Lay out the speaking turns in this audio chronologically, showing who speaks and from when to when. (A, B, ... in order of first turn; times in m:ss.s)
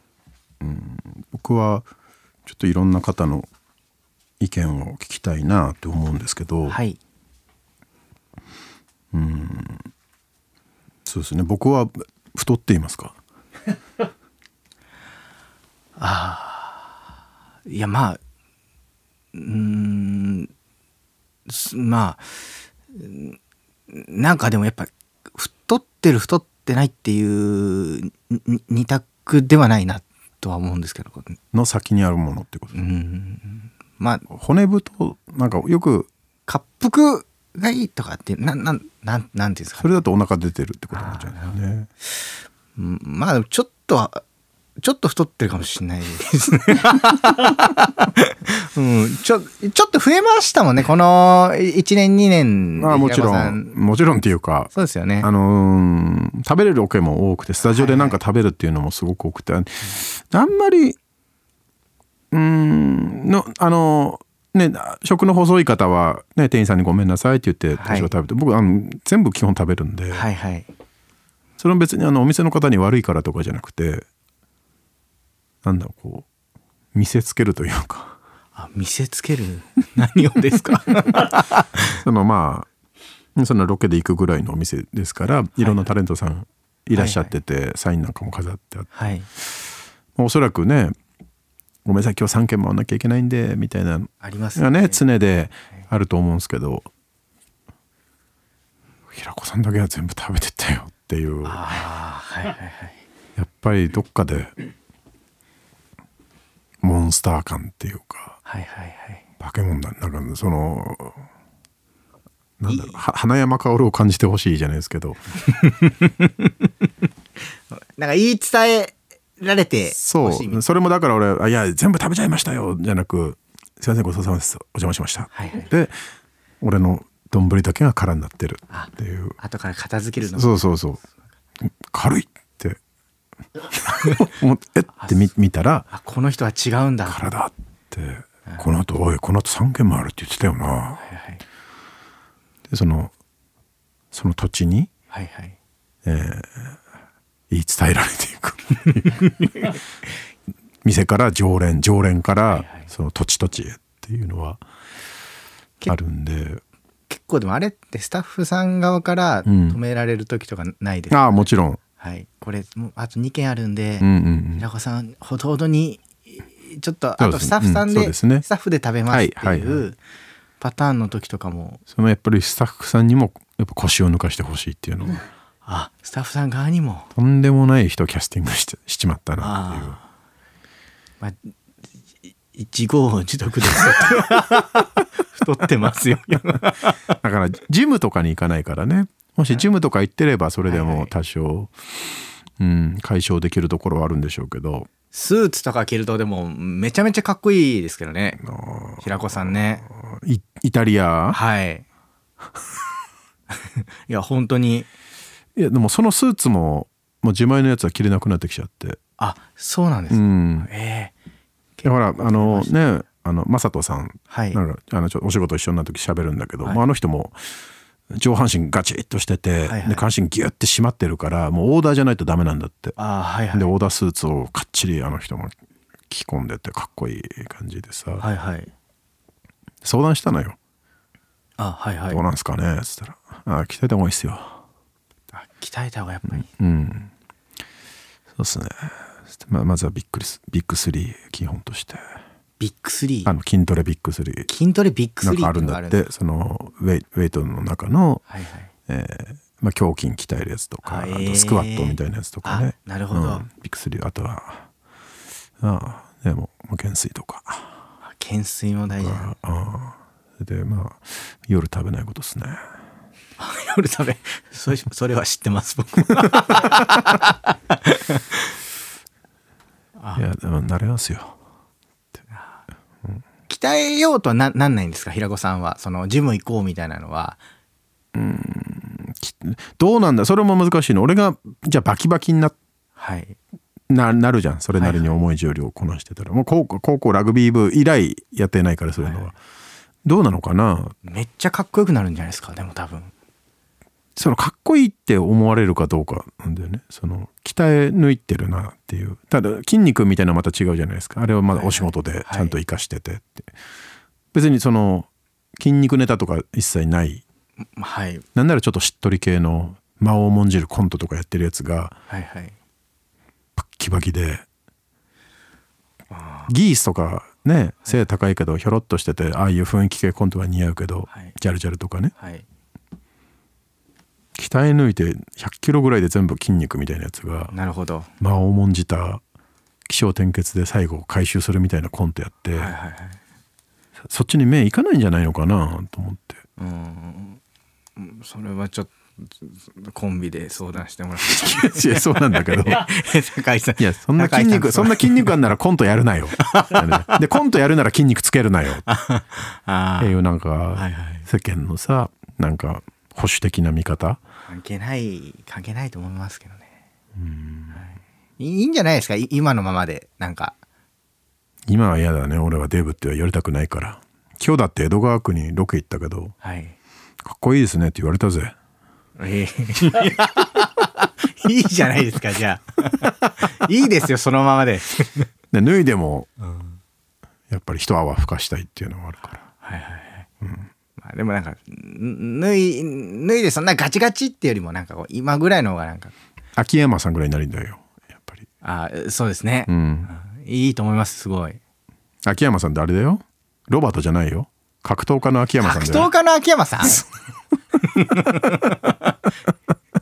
0:00.6-0:01.9 A
0:02.4-0:03.5 A
0:04.4-0:06.8 A
0:06.6-0:07.0 B
0:09.1-0:09.9 A
0:11.0-0:13.1 A
0:16.0-0:17.0 B
0:17.6-0:18.2 B
0:19.3-0:20.5 B
0:21.5-0:23.4 B
0:23.9-0:31.4 B
0:31.5-0:32.7 A
0:32.7-0:34.3 B
0:34.3-0:36.1 A
0:36.5-0:40.0 B
0:39.8-0:41.9 A
0:40.9-0:44.2 B
0:44.8-0:53.7 B
0:52.8-1:01.0 A
0:54.7-0:55.3 B
0:57.6-0:58.2 B
1:02.3-1:10.2 A
1:07.8-1:08.1 B
1:10.1-1:10.7 B
1:11.6-1:14.0 A
1:15.6-1:16.3 A
1:16.9-1:18.1 A
1:18.5-1:21.8 B
1:21.9-1:22.7 A
1:23.4-1:29.0 A
1:25.6-1:25.9 B
1:26.9-1:27.3 B
1:28.9-1:29.3 B
1:30.2-1:31.0 A
1:31.8-1:36.9 A
1:34.2-1:35.0 B
1:39.1-1:41.6 A
1:41.4-1:43.0 B
1:43.4-1:44.5 A
1:46.8-1:48.4 A
1:48.4-1:49.2 B
1:49.4-1:51.2 A
1:52.6-1:55.2 A
1:52.7-1:53.0 B
1:55.6-1:56.5 B
1:57.7-2:00.6 B
1:59.9-2:05.9 A
2:05.3-2:05.7 B
2:06.6-2:09.4 A
2:08.7-2:10.7 B
2:10.2-2:11.0 A
2:11.6-2:12.8 A
2:13.7-2:15.9 A
2:13.9-2:14.2 B
2:15.9-2:17.2 B
2:17.0-2:21.0 A
2:21.0-2:21.4 B
2:22.7-2:23.1 A
2:24.1-2:24.9 A
2:25.1-2:25.6 B
2:26.0-2:26.8 A
2:27.5-2:29.7 A
2:30.8-2:34.6 A
2:32.5-2:32.9 B
2:35.9-2:36.6 A
2:37.1-2:50.0 B
2:39.4-2:39.8 A
2:41.1-2:41.8 A
2:44.0-2:44.6 A
2:47.2-2:48.4 A
2:49.1-2:49.9 A
2:50.6-2:51.8 B
2:51.9-2:55.2 A
2:55.6-2:57.1 B
2:57.1-3:00.0 A
2:59.4-3:00.0 B
3:01.2-3:01.5 B
3:02.5-3:07.0 B
3:07.2-3:11.9 A
3:10.7-3:11.1 B
3:12.6-3:14.9 A
3:15.1-3:18.4 B
3:18.4-3:21.4 A
3:19.0-3:19.8 B
3:21.3-3:21.8 B
3:23.5-3:24.9 B
3:25.6-3:29.0 A
3:29.2-3:31.1 B
3:30.1-3:30.7 A
3:31.8-3:32.8 B
3:31.8-3:37.4 A
3:34.3-3:34.6 B
3:38.1-3:43.0 A
3:39.6-3:40.0 B
3:43.0-3:43.7 B
3:43.5-3:45.6 A
3:46.1-3:48.2 A
3:48.2-3:48.7 B
3:49.8-3:50.6 A
3:51.6-3:52.2 B
3:52.1-3:54.6 A
3:55.3-3:56.5 B
3:56.3-3:57.1 A
3:58.4-4:02.0 A
4:02.6-4:03.3 B
4:03.2-4:04.5 A
4:04.5-4:06.1 B
4:05.2-4:08.2 A
4:08.3-4:08.7 B
4:08.9-4:14.7 A
4:10.8-4:13.4 B
4:15.6-4:17.7 A
4:18.0-4:19.3 B
4:18.9-4:22.6 A
4:23.4-4:28.4 B
4:30.0-4:30.2 B
4:30.2-4:31.3 A
4:32.3-4:32.6 B
4:33.5-4:37.4 B
4:38.1-4:42.6 A
4:43.0-4:43.4 B
4:43.9-4:49.4 A
4:44.7-4:45.1 B
4:49.0-4:49.3 B
4:50.0-4:50.9 A
4:51.0-4:53.1 B
4:54.2-5:03.5 A
5:01.5-5:02.6 B
5:04.3-5:07.2 A
5:07.7-5:08.2 B
5:08.3-5:11.9 A
5:12.1-5:12.6 B
5:13.6-5:14.4 A
5:16.1-5:16.5 B
5:16.5-5:22.1 A
5:21.1-5:21.3 B
5:22.2-5:22.4 B
5:24.4-5:27.5 A
5:27.5-5:28.1 B
5:28.2-5:29.2 A
5:29.9-5:32.7 A
5:32.5-5:33.2 B
5:34.1-5:36.4 A
5:36.6-5:37.4 B
5:38.0-5:45.4 B
5:41.2-5:42.9 A
5:43.8-5:48.8 A
5:46.4-5:47.1 B
5:48.8-5:50.1 B
5:50.0-5:54.2 A
5:50.7-5:51.3 B
5:54.5-5:56.7 B
5:57.2-5:57.8 A
5:57.7-6:00.5 B
6:01.7-6:06.3 A
6:06.4-6:06.8 B
6:07.2-6:08.5 A
6:09.2-6:15.3 B
6:15.5-6:16.3 A
6:16.4-6:16.8 B
6:17.5-6:19.4 A
6:19.6-6:20.3 B
6:20.4-6:20.7 A
6:21.0-6:26.1 B
6:26.6-6:28.4 A
6:28.6-6:31.6 B
6:29.7-6:30.1 A
6:32.2-6:36.1 A
6:35.6-6:37.0 B
6:37.8-6:39.1 B